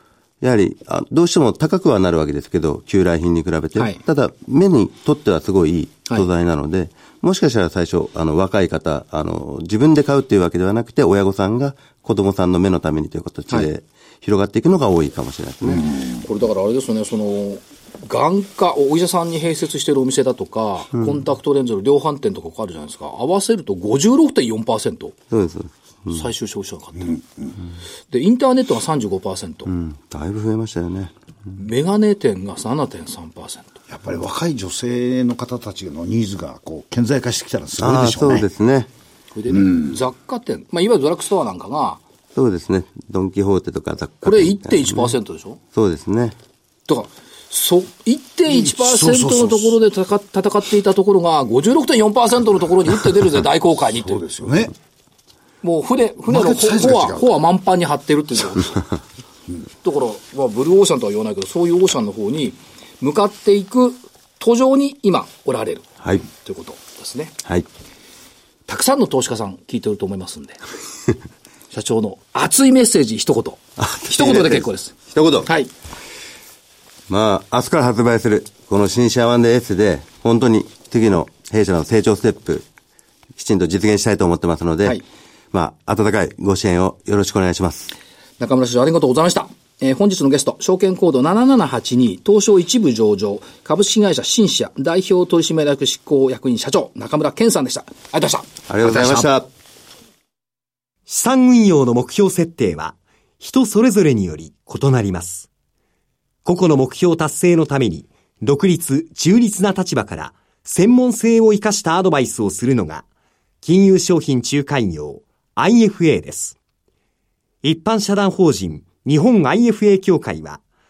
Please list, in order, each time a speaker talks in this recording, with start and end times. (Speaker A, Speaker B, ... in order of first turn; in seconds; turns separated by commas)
Speaker A: 0.4-15.9, Speaker B: 15.7-25.2, Speaker A: 25.3-26.2, Speaker B: 26.1-27.2, Speaker B: 28.1-29.7, Speaker A: 29.7-31.1, Speaker B: 31.5-33.8, Speaker C: 33.9-38.5, Speaker A: 37.8-38.9, Speaker B: 39.3-42.0, Speaker C: 39.6-39.9, Speaker A: 42.4-45.1, Speaker B: 44.2-45.6, Speaker A: 45.7-46.4, Speaker B: 46.9-54.2, Speaker C: 48.5-49.8, Speaker C: 54.0-54.7, Speaker B: 55.6-58.9, Speaker C: 56.3-57.3, Speaker B: 59.8-67.3, Speaker B: 68.7-70.6, Speaker B: 71.7-75.7, Speaker A: 73.8-75.5, Speaker A: 77.1-82.7, Speaker A: 83.4-85.0, Speaker A: 85.5-87.9, Speaker B: 88.4-99.3, Speaker A: 98.7-99.5, Speaker D: 101.1-105.5, Speaker D: 106.5-113.0, Speaker D: 113.6-116.6, Speaker D: 117.6-120.6